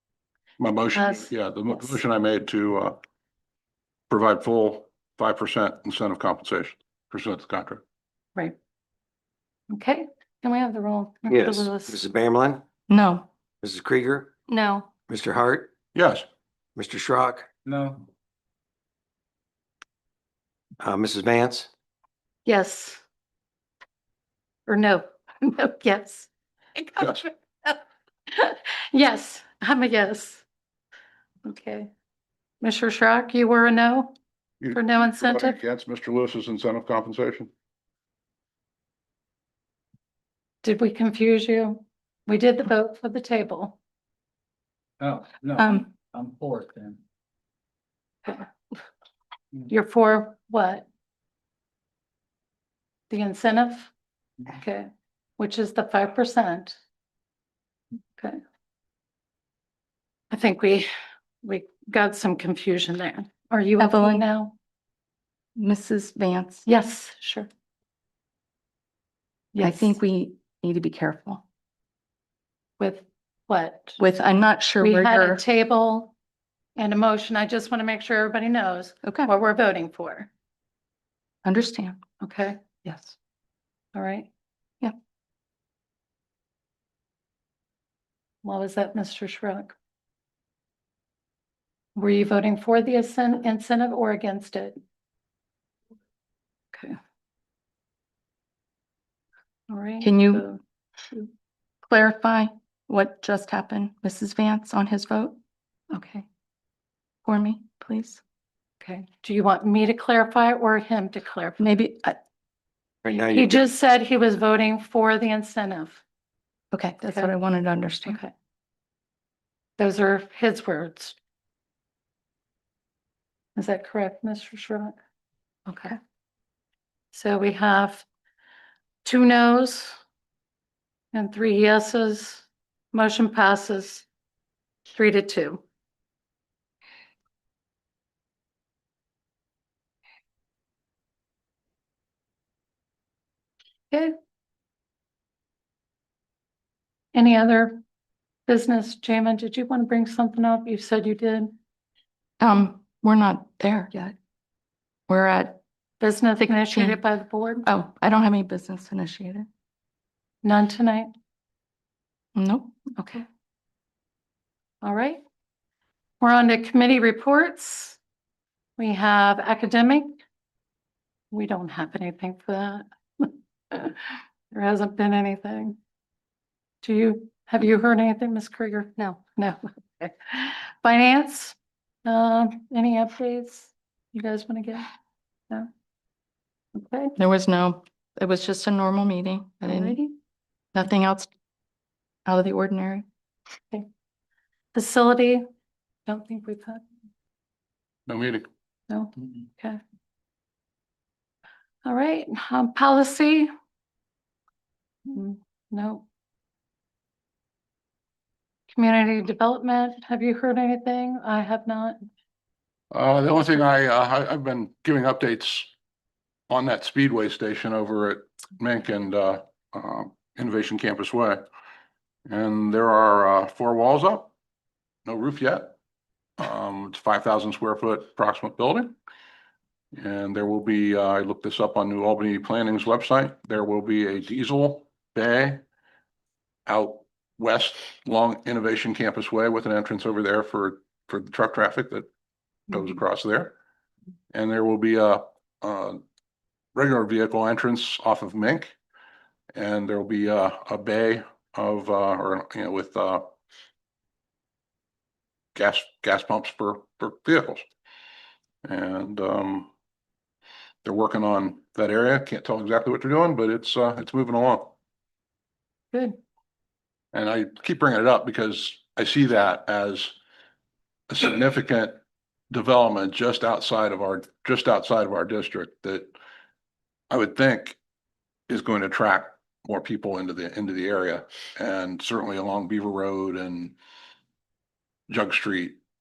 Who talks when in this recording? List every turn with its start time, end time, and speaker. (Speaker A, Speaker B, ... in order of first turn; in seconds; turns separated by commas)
Speaker A: 0.6-3.0, Speaker B: 0.9-1.3, Speaker A: 4.1-7.8, Speaker B: 9.7-12.0, Speaker C: 11.3-12.6, Speaker D: 12.9-13.3, Speaker C: 13.6-14.3, Speaker B: 14.5-14.9, Speaker C: 15.1-15.7, Speaker A: 15.9-16.2, Speaker C: 16.8-17.5, Speaker E: 17.6-18.0, Speaker C: 20.8-21.7, Speaker B: 22.4-23.0, Speaker B: 24.7-30.4, Speaker B: 31.4-31.9, Speaker B: 32.6-34.1, Speaker A: 34.6-37.5, Speaker B: 34.7-35.6, Speaker B: 40.6-43.8, Speaker E: 45.0-47.0, Speaker D: 45.6-45.9, Speaker B: 49.7-50.9, Speaker B: 53.1-53.9, Speaker B: 54.5-56.8, Speaker B: 60.3-60.9, Speaker B: 61.4-64.5, Speaker D: 63.8-64.2, Speaker D: 65.5-66.7, Speaker B: 66.7-67.5, Speaker B: 69.5-69.9, Speaker D: 69.6-71.4, Speaker B: 72.8-74.0, Speaker D: 74.0-75.4, Speaker B: 74.8-76.1, Speaker B: 76.8-80.3, Speaker D: 79.0-79.3, Speaker D: 81.4-82.0, Speaker B: 82.2-83.2, Speaker B: 83.9-84.3, Speaker B: 88.4-89.7, Speaker B: 91.9-94.8, Speaker B: 99.7-100.6, Speaker D: 100.0-100.4, Speaker D: 101.8-105.4, Speaker B: 105.9-106.2, Speaker D: 107.2-108.2, Speaker B: 108.8-111.6, Speaker D: 111.6-112.2, Speaker C: 113.0-113.5, Speaker B: 113.1-116.0, Speaker D: 116.7-118.2, Speaker B: 118.0-118.3, Speaker B: 119.8-121.2, Speaker B: 123.5-124.9, Speaker B: 125.7-126.0, Speaker B: 127.1-128.1, Speaker B: 129.0-130.0, Speaker B: 131.1-134.1, Speaker B: 134.9-135.6, Speaker B: 147.1-147.8, Speaker B: 148.5-151.5, Speaker D: 152.4-154.1, Speaker D: 155.1-155.6, Speaker B: 156.0-157.7, Speaker D: 156.7-157.0, Speaker D: 157.6-159.5, Speaker B: 160.4-161.1, Speaker D: 162.3-162.9, Speaker B: 163.0-163.2, Speaker B: 164.8-165.2, Speaker B: 166.2-168.0, Speaker B: 168.8-170.2, Speaker B: 171.3-175.8, Speaker B: 176.8-184.9, Speaker B: 186.7-187.1, Speaker D: 187.2-190.0, Speaker B: 189.6-190.1, Speaker D: 190.7-191.3, Speaker D: 192.2-193.1, Speaker B: 194.7-195.4, Speaker B: 196.1-196.8, Speaker A: 198.1-198.5, Speaker B: 198.9-199.8, Speaker B: 201.8-203.5, Speaker B: 205.1-206.1, Speaker B: 208.7-212.0, Speaker A: 212.9-215.7, Speaker A: 216.5-221.4, Speaker A: 222.3-224.3, Speaker A: 225.0-225.7, Speaker A: 226.4-228.9, Speaker A: 229.9-235.6, Speaker A: 236.7-242.1, Speaker A: 242.7-243.5, Speaker A: 244.3-246.0, Speaker A: 246.7-248.7, Speaker A: 249.5-253.2, Speaker A: 255.5-257.6, Speaker A: 258.6-259.7, Speaker A: 260.8-264.7, Speaker A: 267.1-270.1, Speaker A: 271.1-271.9, Speaker A: 272.5-276.1, Speaker A: 277.1-277.8, Speaker A: 278.5-283.7, Speaker A: 285.1-285.8